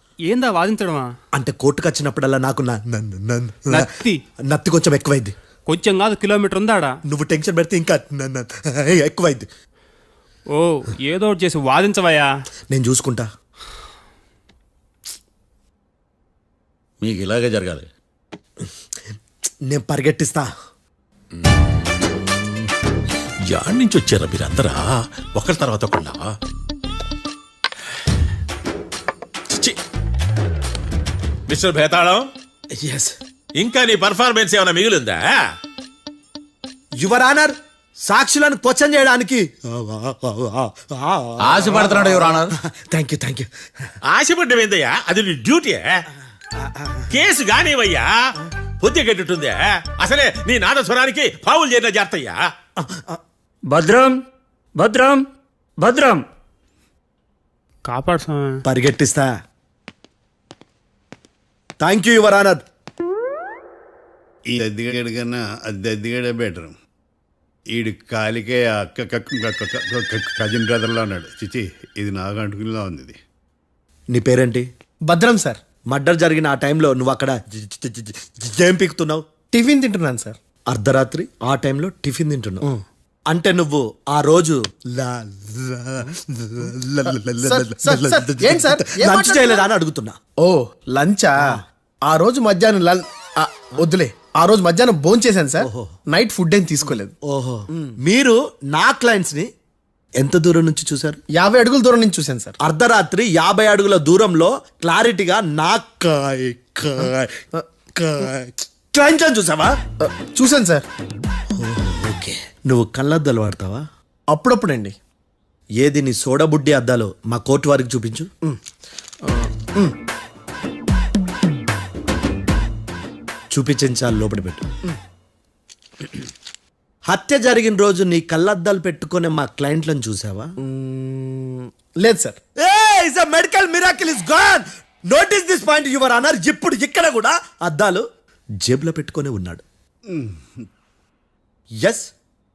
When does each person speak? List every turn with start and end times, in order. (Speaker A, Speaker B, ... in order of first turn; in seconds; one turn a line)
Speaker A: 0.3-1.1
Speaker B: 1.3-3.9
Speaker A: 3.7-4.2
Speaker B: 4.4-5.3
Speaker A: 5.7-7.0
Speaker B: 7.0-9.5
Speaker A: 10.5-12.3
Speaker B: 12.7-13.3
Speaker C: 17.0-17.9
Speaker B: 19.7-20.5
Speaker D: 23.5-26.3
Speaker D: 29.5-29.8
Speaker D: 31.5-32.3
Speaker B: 32.7-33.1
Speaker D: 33.6-35.4
Speaker B: 37.0-43.9
Speaker C: 41.4-42.5
Speaker D: 44.1-46.0
Speaker B: 46.6-47.1
Speaker D: 47.1-48.1
Speaker D: 48.8-52.4
Speaker B: 52.8-53.2
Speaker A: 53.7-54.1
Speaker A: 54.8-55.2
Speaker A: 55.8-56.2
Speaker A: 57.9-58.6
Speaker B: 58.6-59.3
Speaker B: 61.8-62.6
Speaker E: 64.5-66.7
Speaker E: 67.7-73.2
Speaker B: 74.1-74.7
Speaker F: 75.1-75.6
Speaker B: 75.9-79.2
Speaker F: 79.5-80.4
Speaker B: 80.7-82.7
Speaker B: 83.3-90.2
Speaker F: 87.4-89.7
Speaker F: 90.4-97.1
Speaker B: 95.6-95.9
Speaker B: 97.2-99.5
Speaker B: 100.2-101.2
Speaker F: 101.3-102.6
Speaker B: 102.6-109.8
Speaker F: 110.0-110.8
Speaker B: 111.6-113.8
Speaker F: 114.3-115.0
Speaker B: 115.8-118.3
Speaker F: 119.2-120.0
Speaker B: 123.5-124.7
Speaker B: 127.1-130.5
Speaker F: 130.6-132.4
Speaker B: 132.6-138.0
Speaker B: 138.6-139.6
Speaker E: 140.1-140.6
Speaker B: 141.8-142.1